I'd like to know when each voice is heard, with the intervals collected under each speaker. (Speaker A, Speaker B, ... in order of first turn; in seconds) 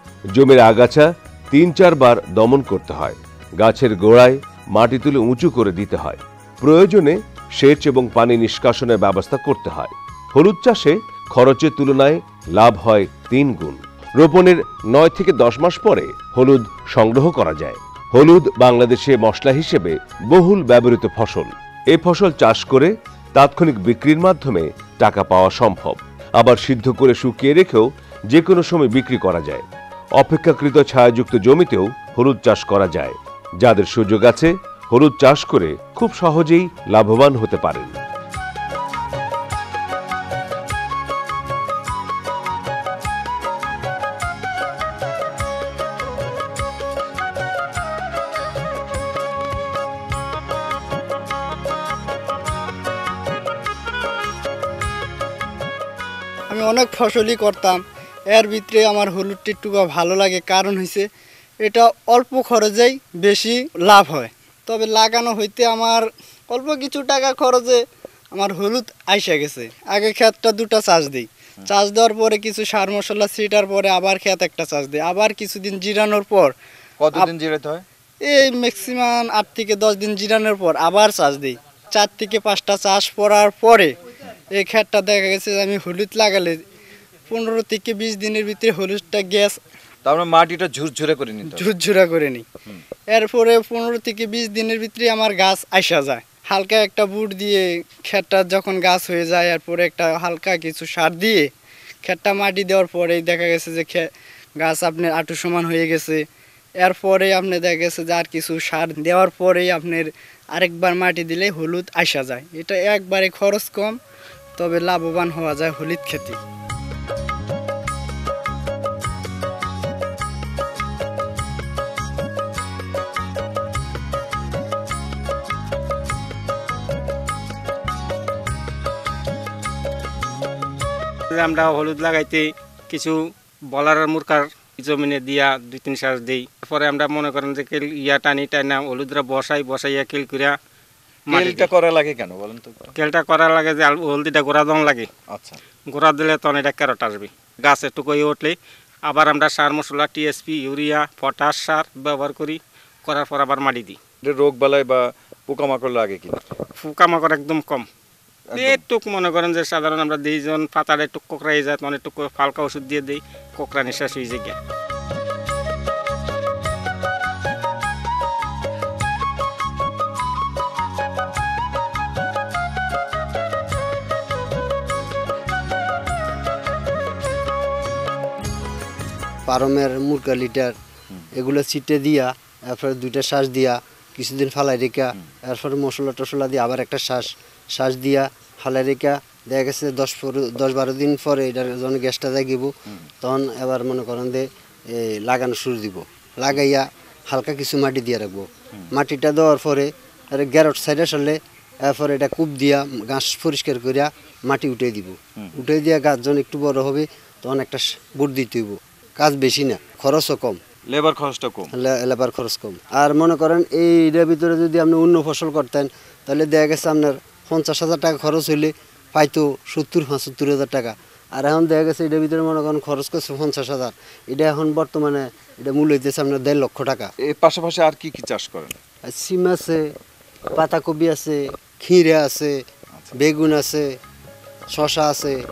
Speaker A: 0.3-29.7, 30.2-38.0
Speaker B: 56.5-61.0, 61.6-67.8, 68.3-76.5, 78.2-83.9, 84.5-86.6, 87.3-89.6, 91.5-92.4, 93.1-101.5, 102.0-104.1, 104.6-106.2, 106.8-114.0, 114.6-116.4
Speaker C: 77.0-77.8, 90.1-91.7, 141.3-142.9, 145.3-145.6, 154.2-156.5, 158.5-158.8, 210.9-211.7, 227.2-228.8
Speaker D: 131.3-140.6, 141.3-141.7, 143.0-145.1, 145.9-154.0, 156.8-157.9, 158.6-164.6
Speaker E: 179.5-180.7, 181.4-210.6, 211.7-227.1, 229.1-229.8, 230.6-232.6, 233.2-233.9, 234.7-235.4